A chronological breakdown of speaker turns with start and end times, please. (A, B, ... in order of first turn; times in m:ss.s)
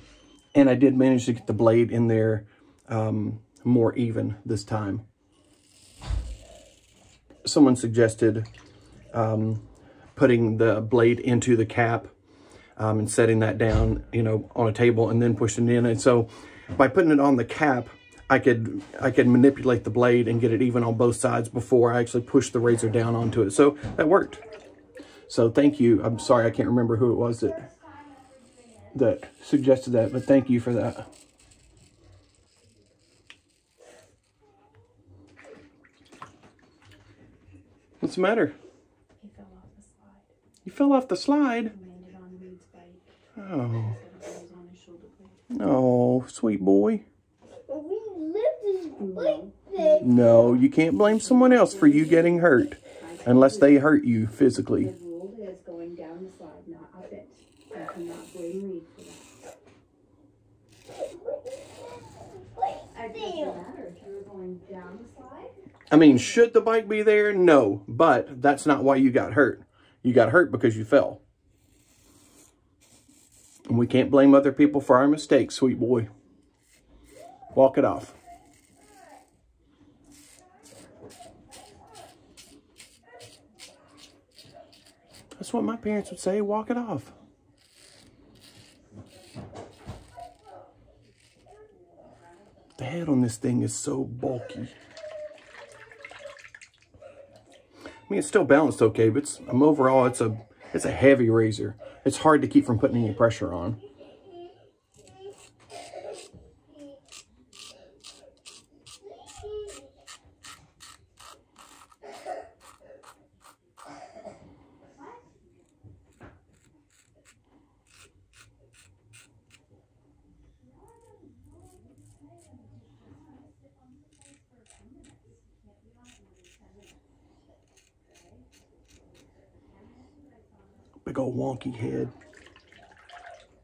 0:00.5-0:05.0 A
0:07.4-0:08.5 A
0:09.1-0:09.6 A
0:10.1-0:12.1 A
0:12.8-0:24.4 A
0:25.3-0:27.7 A
0:28.0-0:28.7 B
0:28.9-0:31.1 A
0:38.0-0:38.6 A
0:39.2-0:40.3 C
0:40.6-0:41.7 A
0:41.6-0:45.4 C
0:43.4-0:44.0 A
0:45.5-0:47.0 A
0:47.7-0:50.1 B
0:49.0-0:53.8 C
0:50.0-0:54.9 A
0:54.8-0:59.3 C
1:02.1-1:03.6 B
1:02.9-1:05.5 C
1:05.9-1:11.2 A
1:13.7-1:16.1 A
1:17.5-1:18.2 A
1:25.4-1:27.1 A
1:32.8-1:34.7 A
1:38.1-1:43.8 A
2:11.0-2:12.1 A